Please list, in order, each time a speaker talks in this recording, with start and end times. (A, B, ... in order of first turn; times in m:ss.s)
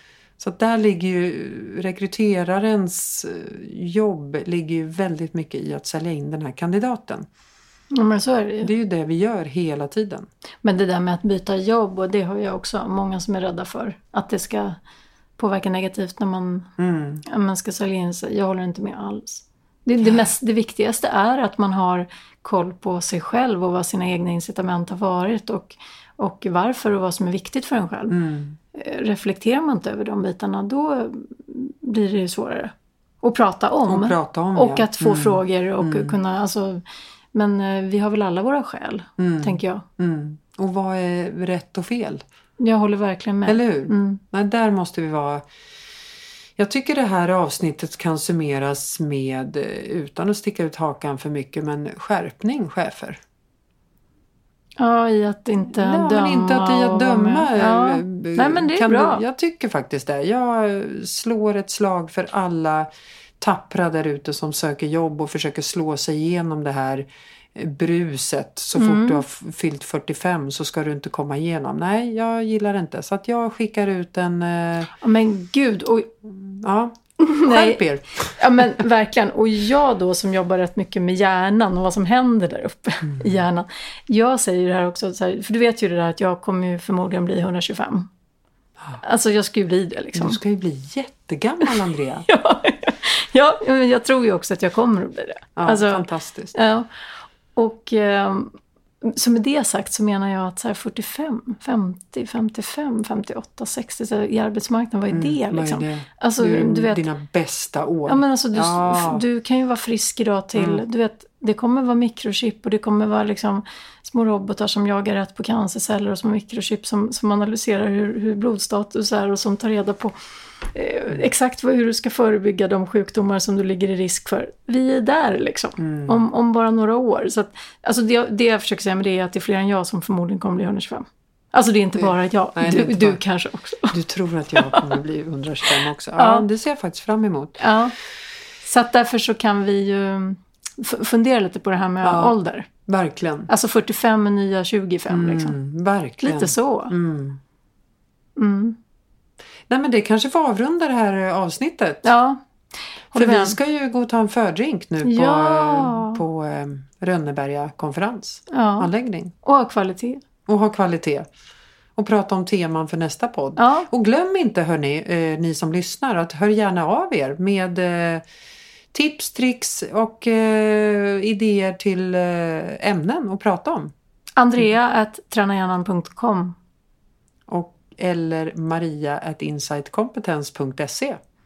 0:00.4-0:07.2 A
0:07.9-0:08.7 B
0:08.6-0:10.3 A
0:10.6-0:14.8 B
0:15.4-0:16.7 B
0:16.8-0:17.2 A
0:17.2-0:28.2 B
0:20.0-0:20.3 A
0:28.1-0:28.6 A
0:28.7-0:36.8 B
0:33.9-0:36.1 A
0:37.3-0:39.8 B
0:39.2-0:42.2 A
0:42.6-0:44.2 B
0:43.4-0:45.4 A
0:46.6-0:53.2 A
0:54.8-0:59.2 B
0:55.7-1:02.9 A
1:03.4-1:14.9 A
1:08.7-1:09.2 B
1:15.0-1:16.1 B
1:16.3-1:18.7 A
1:17.2-1:28.1 B
1:23.0-1:23.4 A
1:29.0-1:30.4 B
1:30.1-1:32.2 A
1:32.2-1:36.9 B
1:35.6-1:36.5 A
1:37.6-1:47.0 B
1:45.1-1:49.2 A
1:48.0-2:00.1 B
1:50.6-1:50.8 A
2:00.7-2:14.0 B
2:05.8-2:06.2 A
2:12.0-2:13.2 A
2:13.9-2:17.6 A
2:14.6-2:14.9 B
2:15.7-2:16.4 B
2:17.6-2:17.9 B
2:18.6-2:22.7 B
2:22.0-2:22.3 A
2:22.8-2:23.5 A
2:23.5-2:25.6 B
2:25.1-2:27.4 A
2:26.2-2:26.9 B
2:28.4-2:28.8 B
2:29.7-2:32.0 A
2:32.0-2:32.4 B
2:33.1-2:33.6 B
2:33.1-2:39.3 A
2:35.0-2:36.2 B
2:38.5-2:38.9 B
2:39.4-2:40.2 B
2:40.4-2:41.2 A
2:42.0-2:48.2 A
2:43.6-2:43.9 B
2:48.9-2:53.9 A
2:54.4-2:56.6 B
2:57.5-3:01.2 A